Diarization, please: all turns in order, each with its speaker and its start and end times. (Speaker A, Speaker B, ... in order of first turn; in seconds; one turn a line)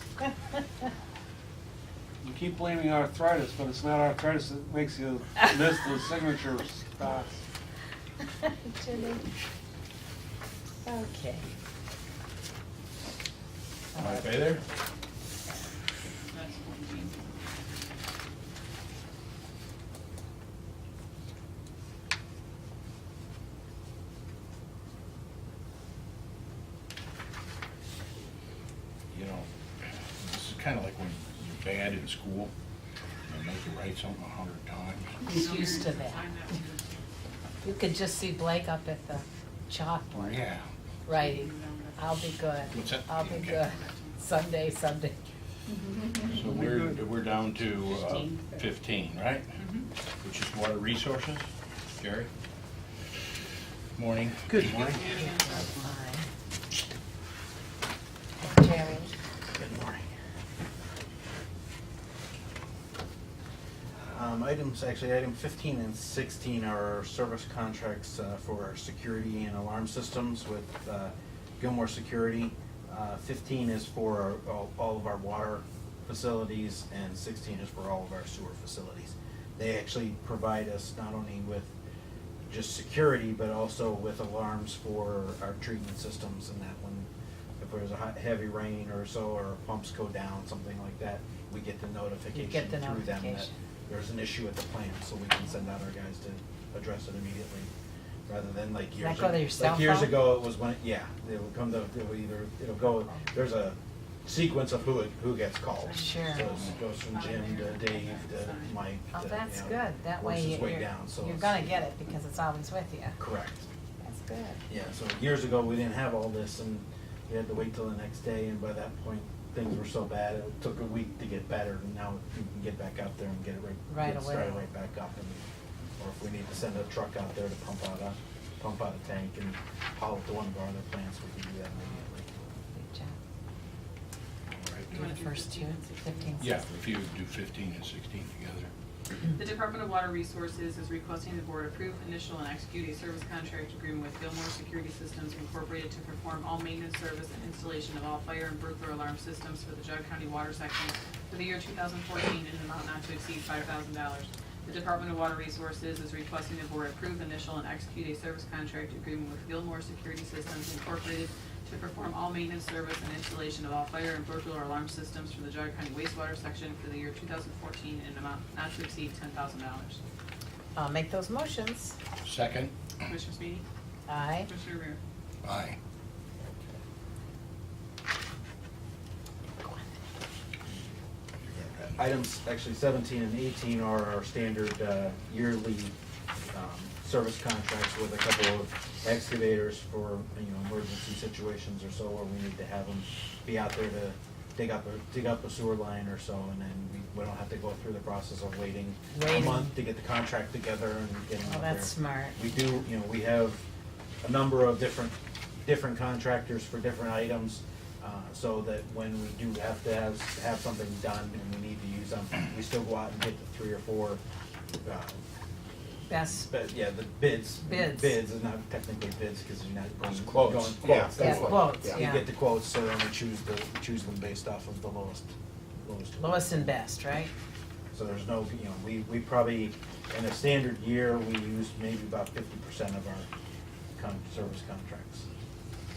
Speaker A: 2.2-7.4
Speaker B: 8.6-9.2
Speaker B: 10.8-11.5
Speaker B: 14.0-14.3
Speaker C: 14.0-14.6
Speaker D: 16.1-18.3
Speaker C: 29.1-29.5
Speaker C: 30.2-32.5
Speaker C: 33.3-35.2
Speaker D: 35.2-37.0
Speaker B: 35.2-36.3
Speaker B: 37.6-40.4
Speaker C: 40.1-40.6
Speaker B: 41.1-45.1
Speaker D: 41.1-44.9
Speaker C: 42.7-43.6
Speaker C: 46.2-49.5
Speaker A: 46.2-47.0
Speaker D: 49.5-49.9
Speaker C: 50.2-51.5
Speaker C: 52.0-52.3
Speaker C: 54.0-54.9
Speaker D: 54.6-55.9
Speaker B: 55.1-56.3
Speaker B: 58.4-59.1
Speaker E: 59.5-60.0
Speaker E: 64.1-81.7
Speaker E: 82.5-87.1
Speaker E: 87.6-97.7
Speaker B: 92.3-93.5
Speaker E: 98.3-111.8
Speaker B: 99.0-100.2
Speaker D: 105.8-108.8
Speaker B: 106.0-106.5
Speaker B: 109.1-113.2
Speaker E: 113.2-113.7
Speaker B: 114.0-114.6
Speaker E: 114.7-125.4
Speaker B: 123.9-124.7
Speaker E: 126.0-132.3
Speaker B: 132.7-133.2
Speaker C: 134.5-135.0
Speaker D: 134.9-136.7
Speaker B: 135.0-136.6
Speaker C: 136.4-138.7
Speaker D: 139.3-170.0
Speaker B: 170.8-171.9
Speaker C: 172.2-172.7
Speaker D: 173.1-173.6
Speaker B: 174.1-174.5
Speaker D: 174.4-175.0
Speaker C: 175.4-175.8
Speaker C: 181.4-182.0
Speaker E: 182.0-185.9
Speaker E: 186.5-203.6
Speaker B: 199.1-199.7
Speaker B: 201.4-202.8
Speaker E: 204.2-214.2
Speaker E: 214.8-215.2
Speaker B: 216.1-216.5
Speaker E: 216.2-226.8
Speaker B: 217.7-218.2
Speaker C: 220.2-221.7
Speaker B: 221.2-222.3
Speaker B: 226.2-227.3
Speaker E: 227.9-233.3
Speaker E: 234.0-235.2